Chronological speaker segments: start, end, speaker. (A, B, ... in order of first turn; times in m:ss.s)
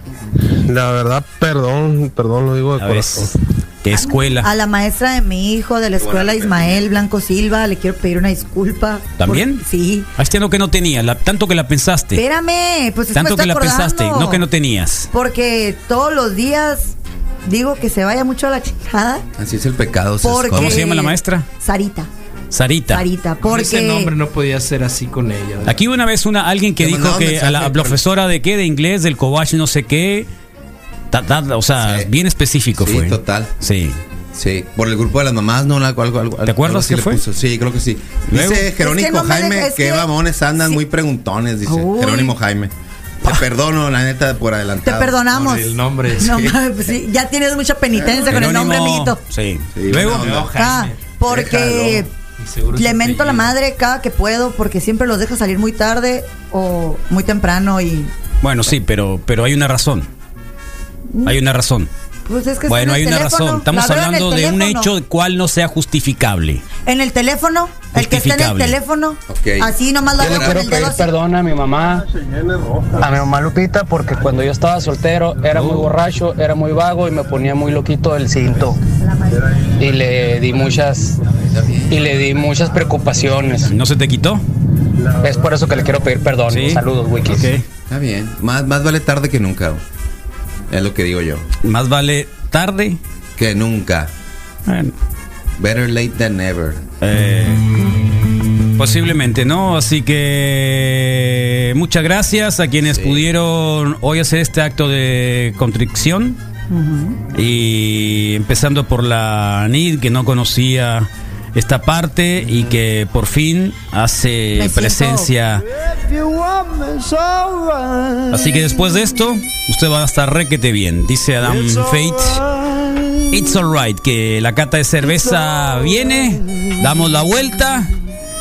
0:00.7-0:03.3 A
0:02.8-0:03.3 B
0:03.8-0:04.5 B
0:03.9-0:10.1 C
0:06.0-0:07.0 D
0:09.2-0:09.6 B
0:10.2-0:12.2 B
0:12.1-0:14.4 C
0:13.1-0:15.1 B
0:15.1-0:19.2 C
0:19.4-0:20.9 D
0:20.2-0:22.1 C
0:20.5-0:21.5 B
0:22.5-0:23.0 B
0:22.9-0:24.1 C
0:23.5-0:25.7 E
0:25.6-0:30.3 B
0:26.8-0:28.0 D
0:31.1-0:34.0 B
0:31.8-0:32.1 D
0:32.8-0:33.5 D
0:34.3-0:45.2 D
0:36.5-0:37.2 B
0:38.3-0:38.7 B
0:38.8-0:40.8 C
0:41.7-0:42.4 C
0:44.8-0:49.2 C
0:45.3-0:46.2 E
0:46.3-0:46.6 D
0:48.0-0:48.4 D
0:48.3-0:50.3 B
0:49.8-0:50.5 D
0:50.1-0:51.0 E
0:50.5-0:52.1 C
0:51.2-0:52.1 D
0:52.4-0:53.5 E
0:52.8-0:58.1 C
0:58.4-1:00.1 B
1:01.1-1:01.4 C
1:01.2-1:01.9 B
1:02.2-1:04.9 C
1:02.7-1:06.6 B
1:06.9-1:11.1 C
1:07.9-1:08.8 B
1:09.3-1:10.9 D
1:10.2-1:12.0 F
1:12.0-1:13.2 A
1:13.0-1:18.8 F
1:15.5-1:15.9 B
1:19.4-1:19.9 A
1:19.8-1:21.2 F
1:21.5-1:22.1 D
1:21.9-1:23.7 F
1:23.7-1:24.4 B
1:25.1-1:25.5 A
1:25.2-1:27.5 F
1:26.5-1:27.6 B
1:27.9-1:29.8 D
1:30.7-1:31.4 D
1:31.6-1:33.0 B
1:33.4-1:34.1 D
1:34.7-1:34.9 B
1:35.6-1:36.8 D
1:37.0-1:37.6 B
1:38.8-1:46.4 B
1:42.8-1:43.3 D
1:46.7-1:47.2 C
1:47.3-1:55.6 B
1:54.6-1:55.3 C
1:58.3-2:02.5 B
2:03.3-2:07.9 B